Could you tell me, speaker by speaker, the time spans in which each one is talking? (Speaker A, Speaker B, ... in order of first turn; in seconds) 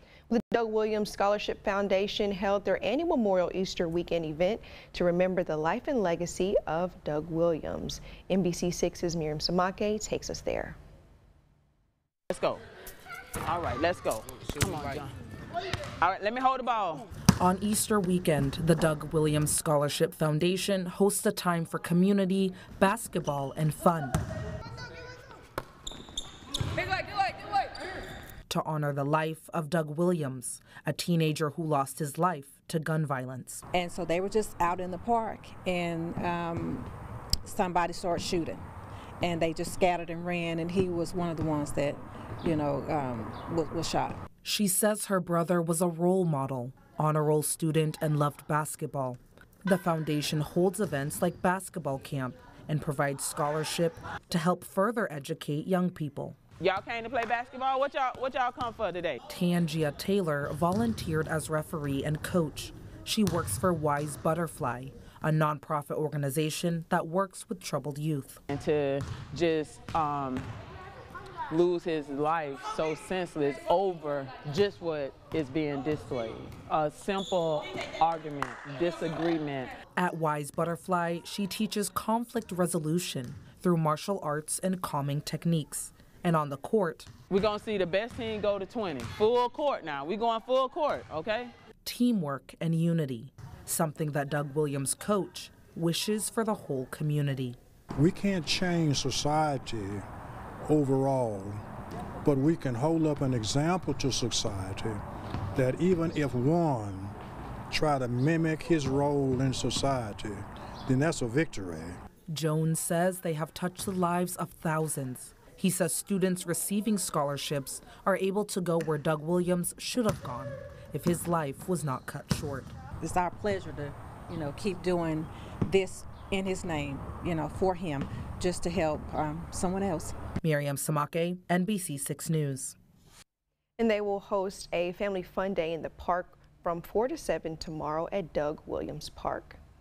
Speaker A: 0.3-10.8, 133.8-139.6
Speaker B: 12.3-12.6, 13.4-15.1, 16.0-17.0, 56.6-59.2, 68.5-70.5, 71.5-79.7, 87.3-91.5
Speaker C: 17.4-24.2, 28.5-33.6, 44.4-56.4, 59.3-68.4, 80.0-87.1, 91.8-97.6, 112.3-122.7, 130.4-132.8
Speaker D: 33.7-36.9, 37.4-38.6, 39.2-44.2, 123.0-130.1
Speaker E: 98.0-100.0, 100.6-101.6, 102.2-105.0, 105.5-107.1, 107.7-112.0